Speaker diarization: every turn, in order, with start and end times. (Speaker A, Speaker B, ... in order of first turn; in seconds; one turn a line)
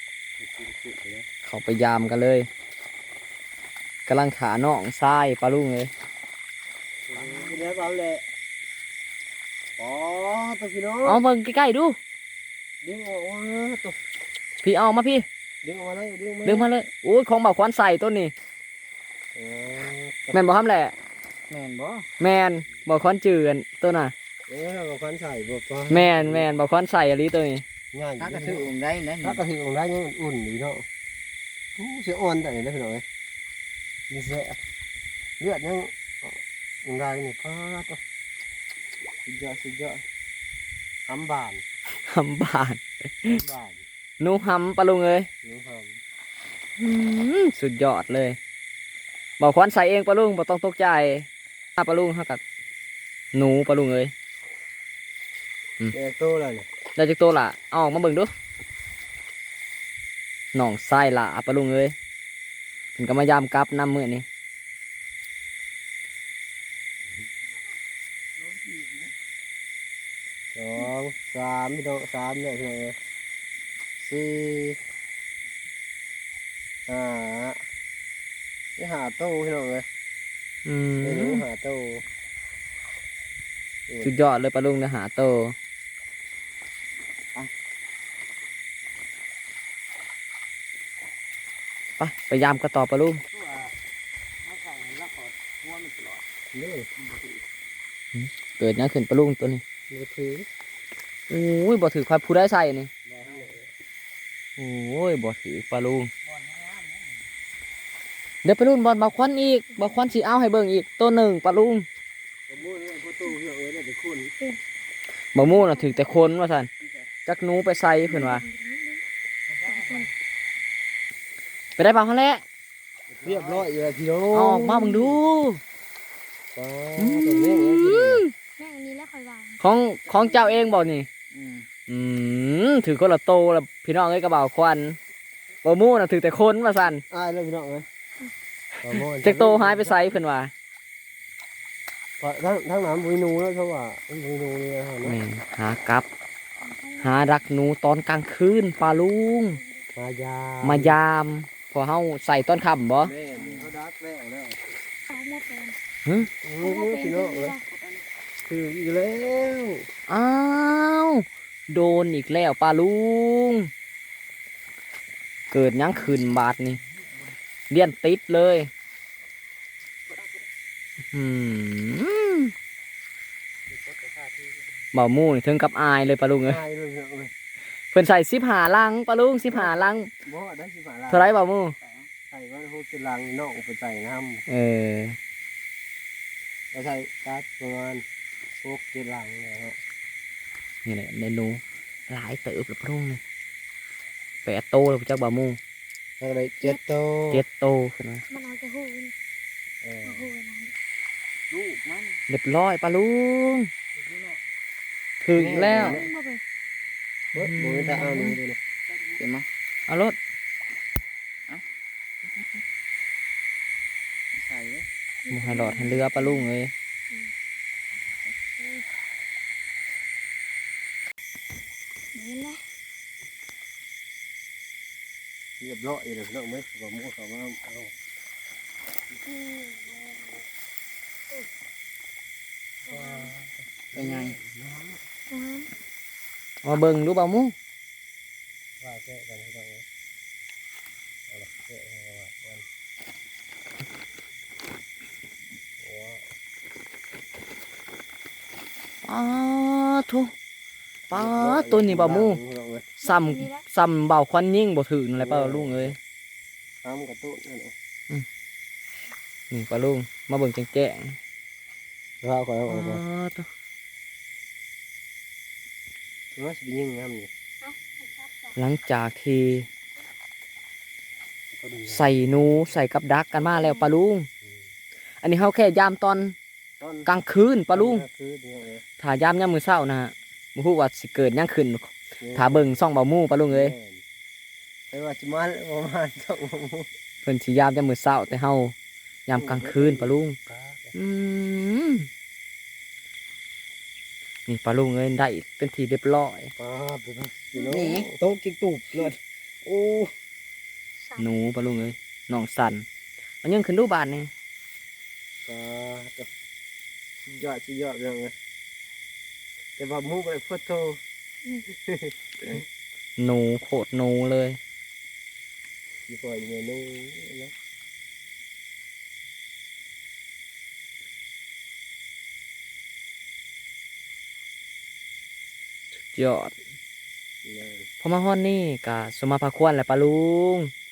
Speaker A: 0.4-1.3
Speaker B: 1.4-2.5
Speaker B: 4.0-5.9
Speaker A: 7.1-8.2
Speaker C: 7.1-7.6
Speaker A: 9.8-11.2
Speaker B: 11.0-11.9
Speaker A: 12.8-14.0
Speaker B: 14.6-15.2
Speaker A: 15.6-16.7
Speaker B: 16.4-18.3
Speaker A: 19.3-20.4
Speaker B: 20.3-20.9
Speaker C: 21.5-22.1
Speaker B: 22.2-24.1
Speaker A: 24.5-26.5
Speaker B: 25.9-27.6
Speaker A: 27.9-28.7
Speaker C: 28.2-29.4
Speaker A: 29.2-30.8
Speaker A: 31.8-33.0
Speaker A: 34.1-34.6
Speaker A: 35.4-38.0
Speaker A: 39.2-40.0
Speaker A: 41.1-41.6
Speaker B: 42.1-43.4
Speaker A: 43.2-43.8
Speaker B: 44.2-45.3
Speaker A: 45.4-46.0
Speaker B: 46.8-48.4
Speaker B: 49.4-52.4
Speaker B: 53.3-54.1
Speaker A: 55.9-56.7
Speaker B: 57.0-58.3
Speaker B: 60.5-61.9
Speaker B: 63.0-64.2
Speaker C: 68.5-69.1
Speaker A: 70.5-73.0
Speaker A: 74.0-74.8
Speaker A: 76.9-77.6
Speaker A: 78.8-79.8
Speaker B: 80.6-81.4
Speaker A: 81.0-82.0
Speaker A: 83.9-84.1
Speaker B: 84.0-85.5
Speaker B: 92.0-93.2
Speaker C: 93.3-93.7
Speaker C: 94.4-96.2
Speaker A: 96.5-96.9
Speaker C: 97.0-97.3
Speaker B: 98.1-99.6
Speaker A: 99.9-100.5
Speaker B: 101.3-102.9
Speaker A: 103.0-103.6
Speaker C: 103.2-103.5
Speaker B: 104.6-106.1
Speaker C: 106.2-107.2
Speaker B: 108.4-111.8
Speaker A: 112.5-114.3
Speaker B: 115.3-116.7
Speaker D: 115.4-116.0
Speaker B: 117.2-118.4
Speaker D: 118.1-119.0
Speaker C: 119.5-120.1
Speaker D: 119.7-120.1
Speaker B: 121.8-122.4
Speaker A: 123.1-125.2
Speaker C: 123.2-123.8
Speaker B: 124.3-125.6
Speaker A: 126.5-128.2
Speaker B: 127.0-128.2
Speaker D: 128.3-129.6
Speaker B: 129.6-131.1
Speaker C: 130.2-130.6
Speaker C: 131.3-131.7
Speaker B: 131.9-135.0
Speaker B: 135.6-137.0
Speaker A: 137.1-137.8
Speaker A: 138.8-140.2
Speaker B: 138.8-140.5
Speaker A: 142.2-145.2
Speaker B: 145.0-146.1
Speaker D: 146.6-147.1
Speaker B: 147.0-149.6
Speaker A: 149.9-151.0
Speaker B: 150.6-153.1
Speaker A: 153.0-154.6
Speaker C: 153.3-153.7
Speaker D: 155.1-155.8
Speaker A: 156.4-157.6
Speaker D: 156.6-157.6
Speaker C: 157.7-158.0
Speaker A: 158.4-159.9
Speaker B: 160.1-163.7
Speaker B: 165.5-166.8
Speaker B: 167.7-168.7
Speaker B: 171.1-172.5
Speaker A: 173.8-174.1
Speaker B: 174.9-176.6
Speaker A: 176.4-177.3
Speaker B: 177.9-180.1
Speaker A: 179.5-181.3
Speaker B: 181.1-181.7
Speaker C: 181.8-182.1
Speaker A: 182.3-184.4
Speaker B: 184.5-185.2
Speaker A: 186.7-188.0
Speaker A: 188.6-189.8
Speaker B: 190.8-193.2
Speaker B: 194.4-195.6
Speaker A: 196.2-197.4
Speaker B: 197.3-198.2
Speaker D: 198.3-199.1
Speaker A: 199.8-200.3
Speaker D: 200.0-200.7
Speaker C: 201.5-202.2
Speaker B: 202.3-203.7
Speaker C: 203.9-204.4
Speaker B: 205.2-206.0
Speaker A: 205.3-206.1
Speaker D: 205.6-206.4
Speaker B: 207.3-208.4
Speaker A: 207.3-208.6
Speaker C: 208.9-209.4
Speaker B: 209.9-210.2
Speaker C: 212.2-212.6
Speaker C: 214.3-214.8
Speaker D: 215.2-216.5
Speaker B: 215.3-216.7
Speaker D: 218.6-218.8
Speaker D: 222.1-222.6
Speaker A: 225.6-227.9
Speaker D: 229.1-230.4
Speaker A: 232.8-235.0
Speaker D: 232.9-233.3
Speaker C: 233.9-234.4
Speaker D: 235.3-235.7
Speaker B: 236.6-237.5
Speaker A: 238.8-239.8
Speaker A: 241.3-242.6
Speaker A: 245.8-246.2
Speaker B: 249.0-250.3
Speaker B: 251.1-252.4
Speaker A: 251.1-252.8
Speaker B: 253.0-255.9
Speaker D: 253.0-253.6
Speaker A: 255.2-256.0
Speaker A: 256.8-257.7
Speaker B: 259.5-261.2
Speaker A: 262.2-263.0
Speaker B: 262.7-263.5
Speaker A: 266.3-267.3
Speaker D: 267.6-268.5
Speaker B: 268.6-269.7
Speaker A: 271.5-272.6
Speaker B: 271.9-274.3
Speaker D: 273.6-273.9
Speaker B: 275.2-276.4
Speaker A: 276.8-277.1
Speaker B: 277.1-278.1
Speaker A: 277.7-278.8
Speaker B: 279.0-283.7
Speaker A: 282.2-282.8
Speaker A: 283.5-284.0
Speaker A: 284.9-286.9
Speaker B: 287.2-288.7
Speaker B: 289.3-290.4
Speaker A: 289.3-290.9
Speaker B: 290.9-292.1
Speaker B: 294.5-296.5
Speaker A: 296.6-299.1
Speaker D: 297.5-297.9
Speaker C: 297.7-298.1
Speaker A: 299.6-300.1
Speaker B: 301.2-302.9
Speaker B: 303.4-304.3
Speaker A: 305.4-306.3
Speaker A: 307.2-308.3
Speaker A: 309.8-311.0
Speaker A: 311.5-312.6
Speaker B: 313.2-314.6
Speaker A: 316.1-317.5
Speaker B: 326.0-326.5
Speaker A: 327.4-327.9
Speaker B: 328.0-330.7